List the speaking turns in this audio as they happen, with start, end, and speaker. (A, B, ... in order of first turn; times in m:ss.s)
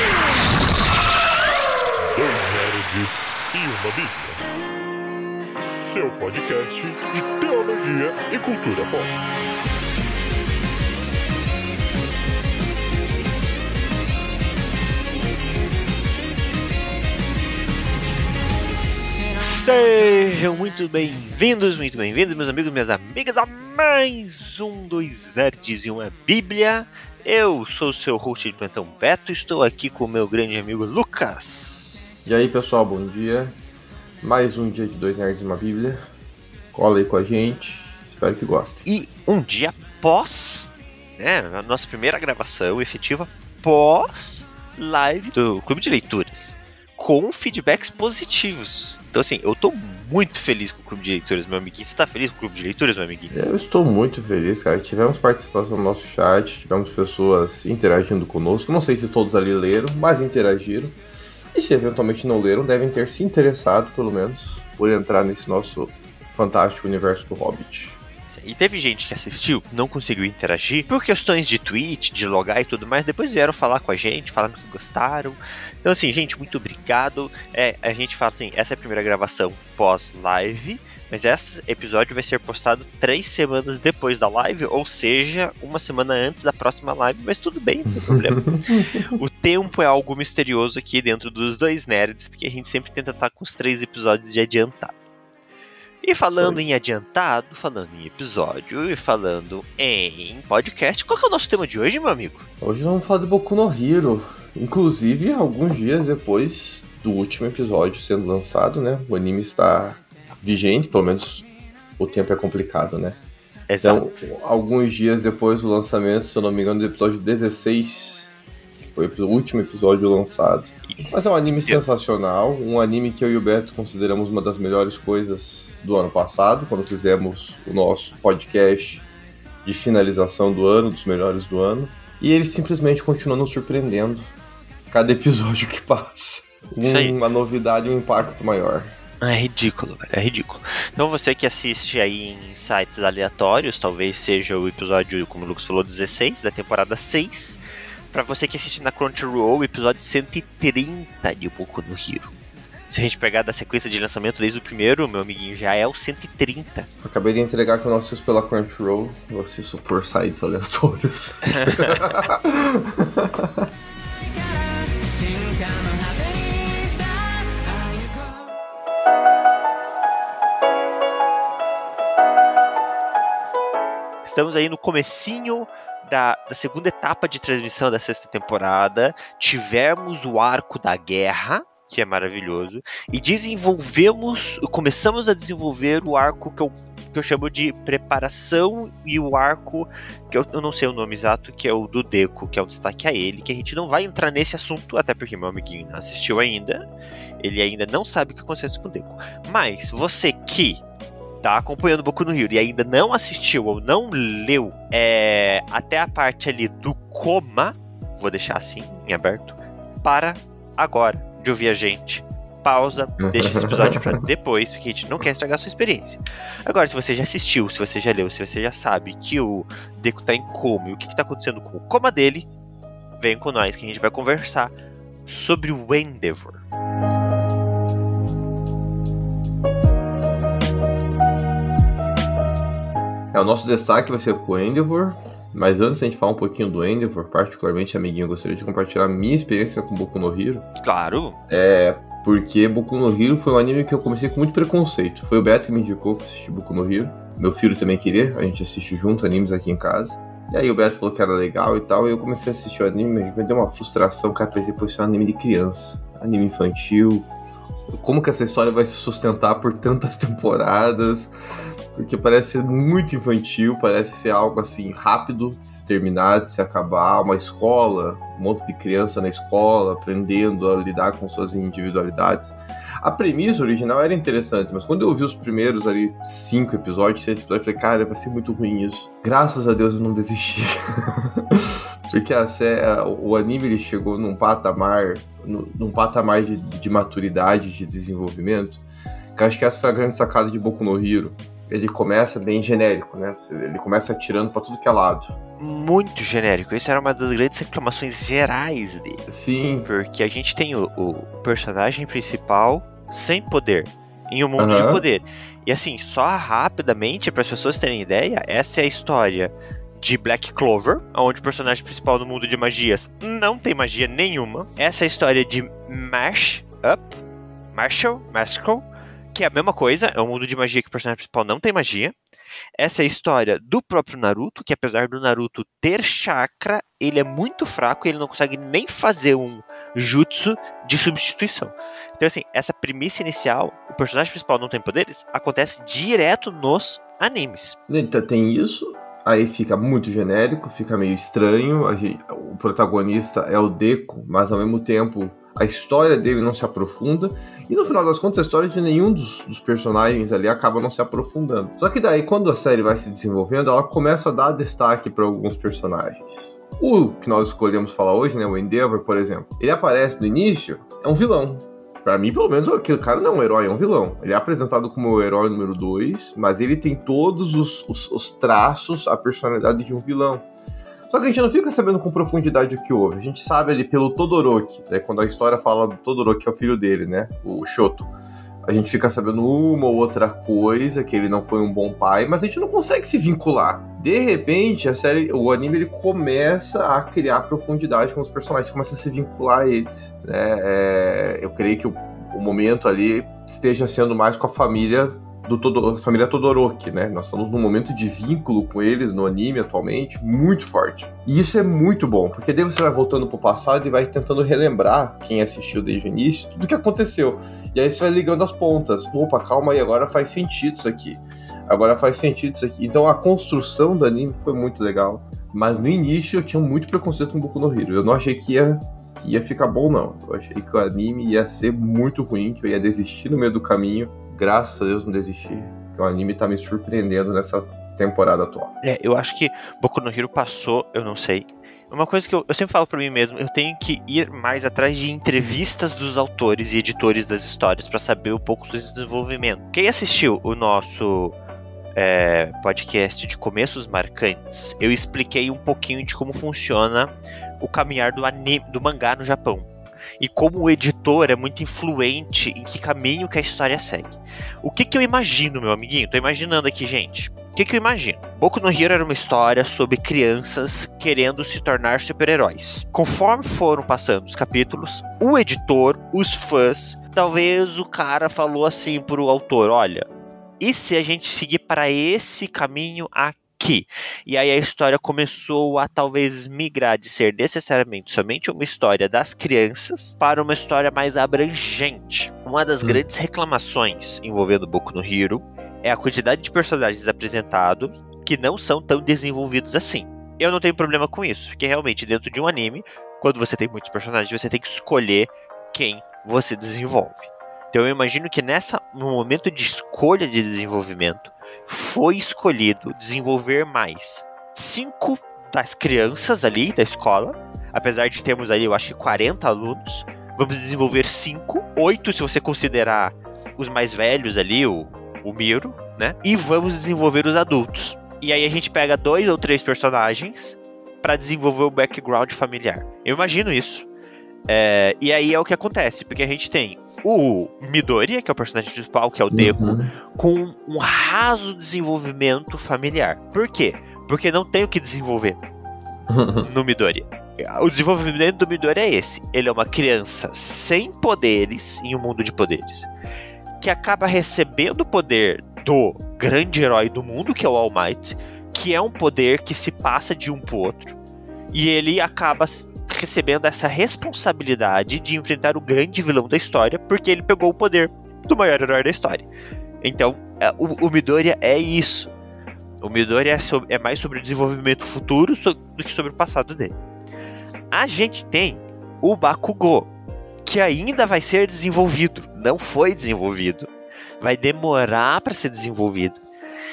0:02.1-0:04.4 A
0:05.6-0:09.1 A
0:19.4-0:32.2 B
0:32.3-0:33.6 C
0:34.2-0:36.0 C
0:36.7-0:38.8 C
0:38.8-0:53.3 B
0:53.3-1:01.0 C
1:01.5-1:08.0 C
1:08.3-1:28.5 B
1:28.0-1:29.2 C
1:29.1-1:34.9 B
1:36.0-1:42.4 B
1:36.3-1:36.6 C
1:42.6-1:51.5 C
1:52.0-1:53.2 C
1:53.7-1:54.2 B
1:53.8-1:58.3 C
1:58.9-2:09.0 C
2:00.9-2:01.8 B
2:09.6-2:14.3 C
2:14.9-2:18.9 C
2:16.8-2:17.2 B
2:19.2-2:27.6 B
2:28.1-2:32.3 B
2:32.9-2:36.9 B
2:37.0-2:43.7 C
2:41.5-2:42.0 B
2:54.2-3:16.8 B
3:17.4-3:20.8 B
3:21.4-3:42.5 B
3:33.2-3:34.2 C
3:43.2-3:44.7 B
3:45.3-3:46.6 B
3:53.3-4:00.7 C
4:00.8-4:01.4 B
4:01.5-4:17.3 C
4:17.9-4:21.3 C
4:21.9-4:48.8 C
4:49.4-4:55.3 C
4:55.6-4:59.2 B
4:59.3-4:59.9 C
4:59.8-5:17.2 B
5:04.6-5:05.0 C
5:17.7-5:22.2 B
5:22.8-5:37.8 B
5:37.9-6:10.4 C
6:11.1-6:18.1 C
6:18.7-7:08.8 C
7:08.8-7:21.3 B
7:22.0-7:29.7 B
7:30.2-7:50.1 B
7:50.6-8:43.9 B
8:44.5-8:55.4 B
8:49.3-8:49.9 C
8:56.1-8:56.5 C
8:56.4-9:02.9 B
9:03.6-9:11.0 B
9:11.5-9:19.3 B
9:19.8-9:22.1 B
9:22.8-9:26.8 B
9:27.7-9:29.9 B
9:30.4-9:33.7 B
9:34.2-9:36.2 B